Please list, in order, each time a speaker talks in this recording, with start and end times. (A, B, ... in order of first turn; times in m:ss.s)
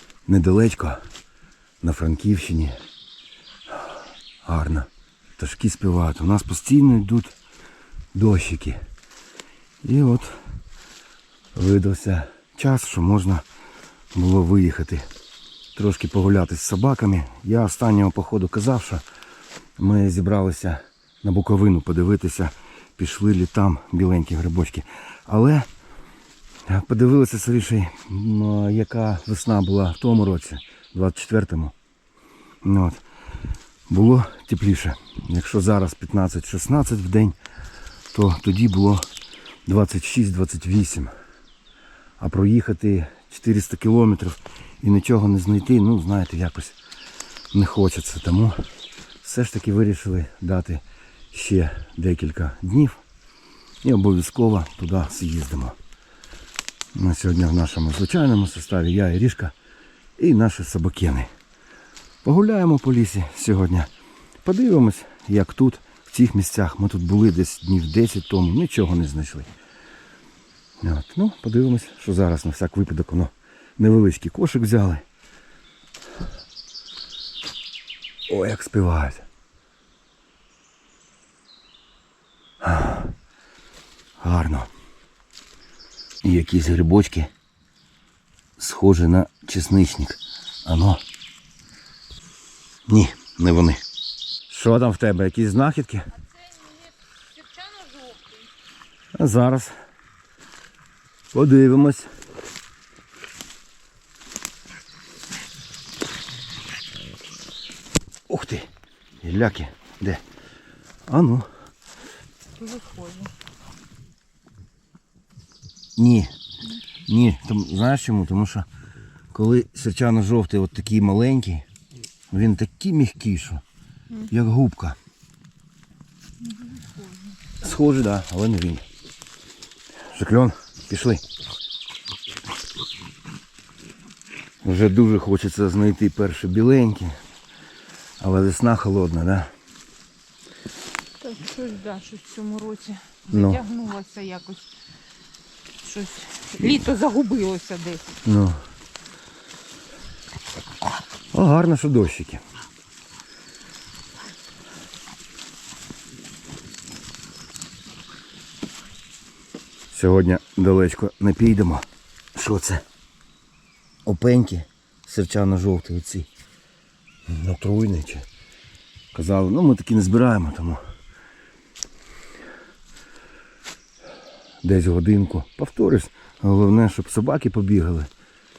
0:00.3-0:01.0 A
0:01.8-0:02.8 A
0:04.4-0:07.3 A
0:08.1-0:08.8 A
0:09.8-0:10.3 A
0:11.6-0:13.4 A
0:14.1-0:15.0 A
0:15.8-0:19.0 A
0:19.8-0:25.7 A
0:26.7-0:31.7 A
0:32.6-0:33.0 A
0:33.9-0:37.4 A
0:38.1-0:39.1 A
0:39.7-0:41.1 A
0:42.2-0:46.8 A
0:47.5-0:48.6 A
0:49.2-0:53.0 A
0:53.8-0:55.8 A
0:56.9-0:59.5 A
1:00.2-1:01.3 A
1:02.2-1:03.9 A
1:04.4-1:09.5 A
1:10.8-1:15.0 A
1:18.3-1:19.3 A
1:22.6-1:23.1 A
1:24.2-1:24.7 A
1:26.2-1:27.3 A
1:28.6-1:31.0 A
1:32.9-1:33.8 A
1:34.5-1:36.1 A
1:36.3-1:38.4 B
1:39.2-1:39.7 A
1:41.3-1:42.1 A
1:48.3-1:48.7 A
1:49.2-1:50.2 A
1:51.1-1:51.5 A
1:52.6-1:53.3 B
1:56.0-1:56.3 A
1:57.1-1:58.7 A
1:59.3-2:01.6 A
2:02.3-2:03.6 A
2:04.3-2:05.0 A
2:06.5-2:07.4 B
2:07.6-2:08.8 A
2:10.1-2:11.2 A
2:14.6-2:17.1 A
2:18.2-2:19.5 A
2:21.2-2:24.7 B
2:23.3-2:23.6 A
2:25.8-2:28.2 B
2:28.2-2:28.6 A
2:31.3-2:32.4 A
2:39.9-2:42.8 A
2:44.0-2:46.3 A
2:47.3-2:48.3 A
2:49.1-2:50.8 A
2:54.6-2:58.1 A